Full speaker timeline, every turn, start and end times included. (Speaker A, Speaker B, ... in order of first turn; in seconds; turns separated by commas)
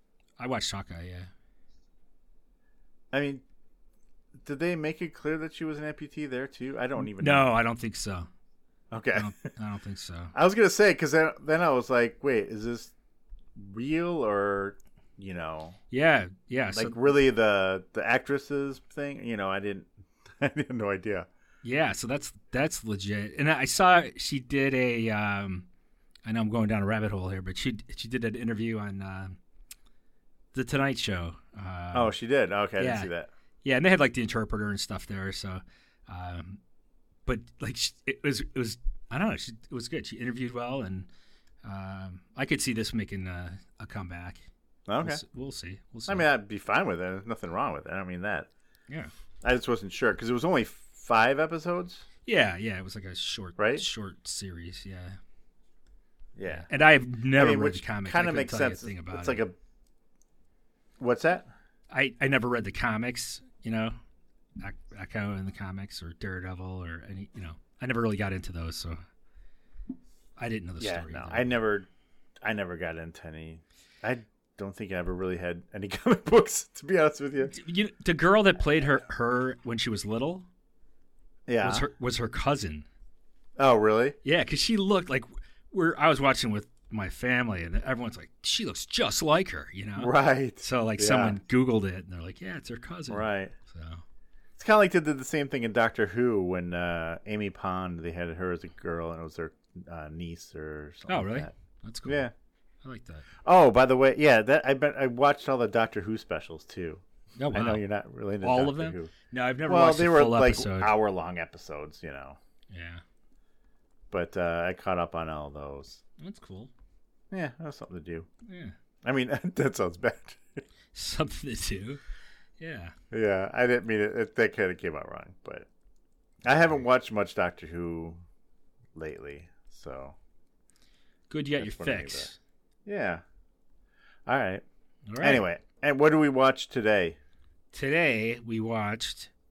Speaker A: 0.4-1.3, Speaker B: 3.1-3.4, Speaker B: 4.4-7.5, Speaker A: 7.0-8.3, Speaker B: 8.9-9.3, Speaker A: 9.1-10.3, Speaker B: 10.3-12.9, Speaker B: 13.6-15.8, Speaker A: 15.9-17.0, Speaker B: 16.7-21.3, Speaker A: 21.6-25.7, Speaker A: 26.2-29.4, Speaker A: 30.5-32.1, Speaker B: 31.9-33.3, Speaker A: 32.8-33.1, Speaker A: 33.6-36.6, Speaker A: 37.3-41.1, Speaker A: 41.6-44.4, Speaker B: 44.9-45.2, Speaker A: 45.0-46.3, Speaker B: 46.1-48.5, Speaker B: 49.4-52.0, Speaker A: 52.3-55.2, Speaker B: 53.6-53.9, Speaker B: 56.4-56.7, Speaker A: 56.5-59.4, Speaker B: 57.3-59.6, Speaker B: 61.0-61.5, Speaker A: 61.9-64.0, Speaker A: 64.6-69.0, Speaker A: 70.4-71.5, Speaker B: 70.8-71.9, Speaker B: 72.4-77.6, Speaker A: 77.5-80.5, Speaker B: 78.6-79.0, Speaker B: 81.5-81.9, Speaker A: 81.6-82.9, Speaker B: 83.6-84.2, Speaker A: 84.2-94.0, Speaker B: 90.0-91.4, Speaker B: 93.1-93.5, Speaker B: 94.6-101.5, Speaker A: 101.1-102.3, Speaker B: 102.0-102.3, Speaker A: 102.8-103.3, Speaker B: 103.4-109.1, Speaker A: 107.4-107.8, Speaker A: 108.4-111.0, Speaker B: 109.7-112.4, Speaker A: 112.7-113.0, Speaker B: 114.1-116.0, Speaker A: 116.2-116.7, Speaker B: 117.3-118.3, Speaker A: 118.5-118.7, Speaker B: 119.0-120.6, Speaker A: 120.9-122.0, Speaker A: 122.6-122.9, Speaker B: 123.1-125.7, Speaker B: 126.4-128.2, Speaker B: 128.9-130.2, Speaker A: 131.3-132.4, Speaker B: 131.6-132.3, Speaker B: 132.9-133.2, Speaker B: 134.3-134.6, Speaker A: 135.1-135.4, Speaker B: 135.2-137.2, Speaker A: 137.7-139.3